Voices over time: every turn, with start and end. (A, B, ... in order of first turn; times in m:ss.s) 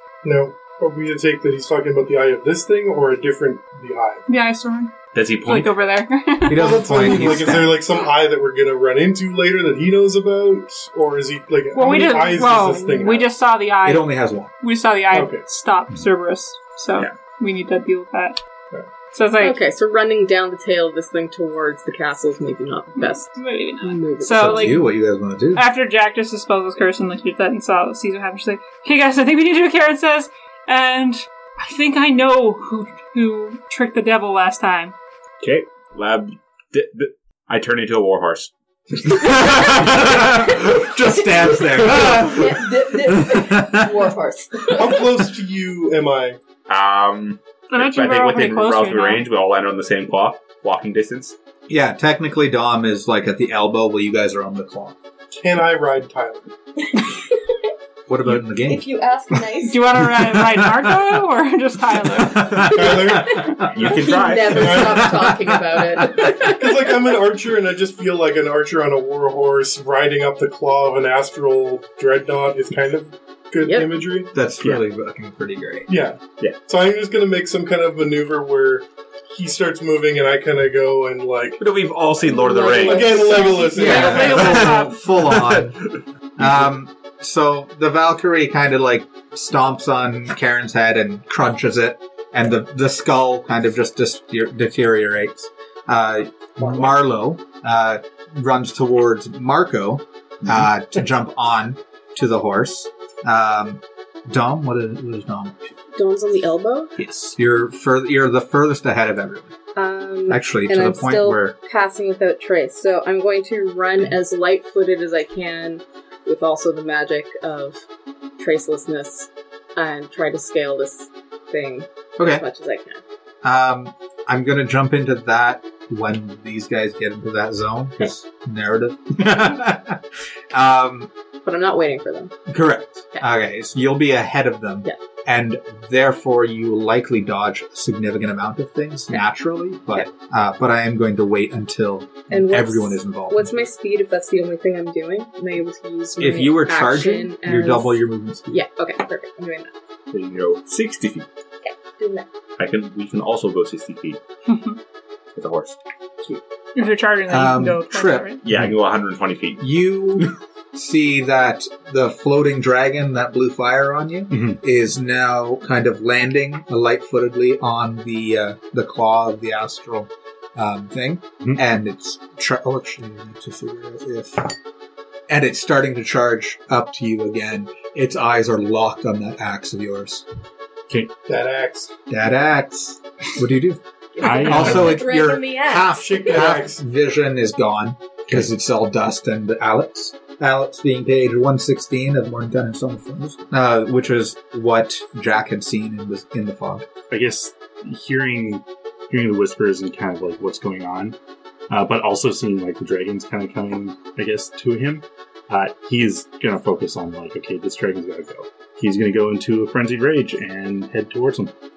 0:00.2-0:04.2 A
0:04.3-0:04.9 B
0:05.1-0:05.7 C
0:05.4-0:07.2 B
0:06.5-0:07.8 D
0:06.5-0:13.3 A
0:11.7-0:18.4 B
0:13.8-0:14.5 D
0:15.1-0:15.5 A
0:19.1-0:19.6 B
0:19.4-0:24.8 E
0:22.9-0:24.8 B
0:24.3-0:25.6 D
0:25.5-0:34.9 B
0:35.4-0:39.8 C
0:39.0-0:44.1 D
0:41.0-0:45.2 E
0:44.7-0:46.4 A
0:46.7-0:51.4 C
0:47.7-0:49.2 B
0:51.7-0:55.0 D
0:55.4-0:56.5 A
0:58.1-0:58.8 D
0:58.3-0:59.8 E
0:59.6-1:02.7 B
1:00.0-1:01.1 D
1:02.1-1:03.9 D
1:02.7-1:03.4 A
1:03.2-1:07.0 E
1:03.7-1:05.0 C
1:04.5-1:05.0 A
1:04.9-1:06.3 D
1:06.2-1:14.3 A
1:13.6-1:14.0 E
1:14.3-1:15.9 D
1:15.9-1:21.6 A
1:21.6-1:23.3 C
1:22.2-1:24.1 E
1:22.8-1:24.4 A
1:23.2-1:25.0 B
1:23.8-1:25.8 D
1:24.1-1:25.8 C
1:26.4-1:45.8 D
1:36.6-1:36.9 A
1:45.9-1:46.9 E
1:47.0-1:49.5 D
1:49.8-1:57.8 E
1:50.3-1:51.5 D
1:58.4-2:03.0 E
2:02.2-2:02.4 D
2:03.4-2:11.1 D
2:11.4-2:12.3 E
2:12.5-2:23.6 D
2:22.3-2:28.0 E
2:26.2-2:28.6 D
2:28.5-2:29.7 E
2:30.1-2:31.3 C
2:31.6-2:32.3 E
2:32.6-2:34.2 C
2:34.5-2:34.8 B
2:35.3-2:35.8 C
2:36.7-2:38.4 B
2:37.3-2:38.3 D
2:38.4-2:39.6 C
2:39.6-2:54.5 D
2:44.3-2:44.6 F
2:55.3-3:00.2 D
3:01.3-3:01.9 A
3:02.1-3:16.9 D
3:04.2-3:06.5 E
3:04.2-3:05.0 F
3:06.0-3:06.8 A
3:17.1-3:21.2 F
3:21.7-3:31.5 F